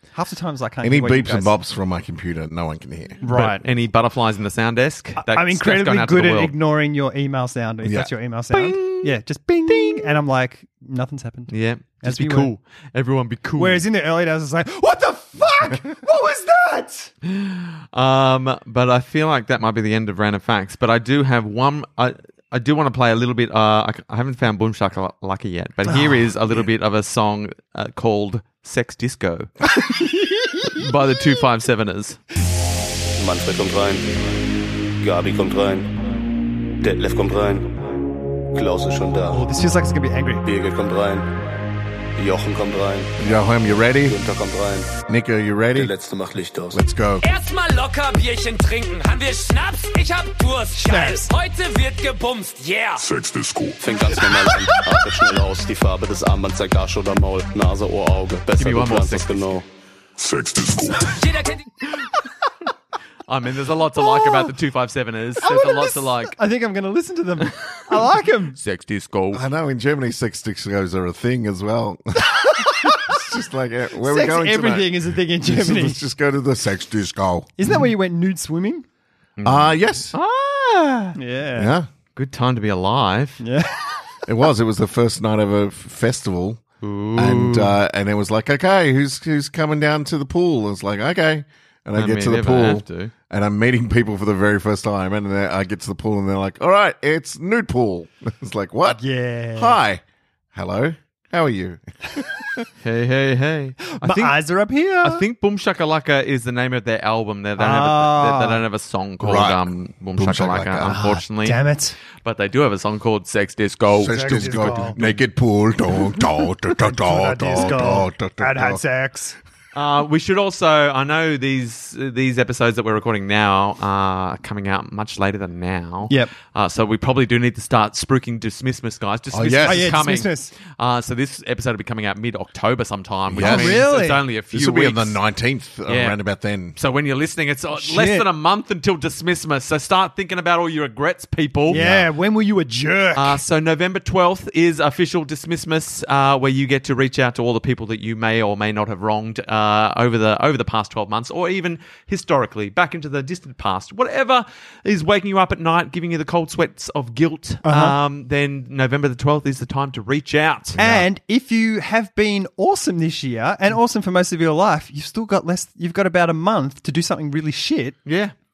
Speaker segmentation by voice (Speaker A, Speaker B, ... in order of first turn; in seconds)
Speaker A: 0.1-1.5, 3.2-3.6, 5.2-12.5, 13.6-17.1, 25.9-26.3, 29.8-30.9, 39.3-40.4, 50.8-51.3, 64.0-64.5, 65.4-68.6, 72.2-73.5, 74.0-76.0, 77.6-78.9, 81.2-81.7, 83.4-83.8, 98.9-99.8, 104.0-105.2, 107.6-108.6, 110.9-112.0, 114.0-115.0, 116.8-119.4, 129.6-130.5, 133.4-134.2, 137.8-138.3, 141.7-143.4, 157.6-158.0, 160.8-168.0
Speaker B: 0.8-3.2, 7.8-8.1, 43.2-44.2, 45.0-45.9, 46.7-47.3, 69.3-77.5, 79.4-80.1, 81.6-81.9, 84.3-86.6, 87.1-99.0, 99.5-102.7, 109.2-111.0, 114.0-118.8, 129.3-129.9, 133.3-133.9, 134.5-136.8, 141.7-142.1, 160.8-161.1
Speaker C: 3.2-6.5, 8.5-9.1, 9.7-10.1, 11.5-13.8, 17.2-29.7, 30.6-32.2, 58.6-59.4, 63.3-66.3, 68.6-69.4, 79.4-81.2, 82.2-83.4, 86.8-87.8, 91.9-93.1, 102.8-104.4, 105.0-111.6, 112.2-115.2, 119.7-135.2, 135.9-136.2, 136.8-141.8, 143.1-160.8, 168.1-168.3
Speaker D: 33.2-34.3, 35.0-35.9, 36.8-37.9, 38.5-39.4, 40.4-41.4, 42.1-43.1, 44.0-45.0, 45.8-46.8, 53.7-59.6
Speaker E: 47.2-53.1, 61.1-61.6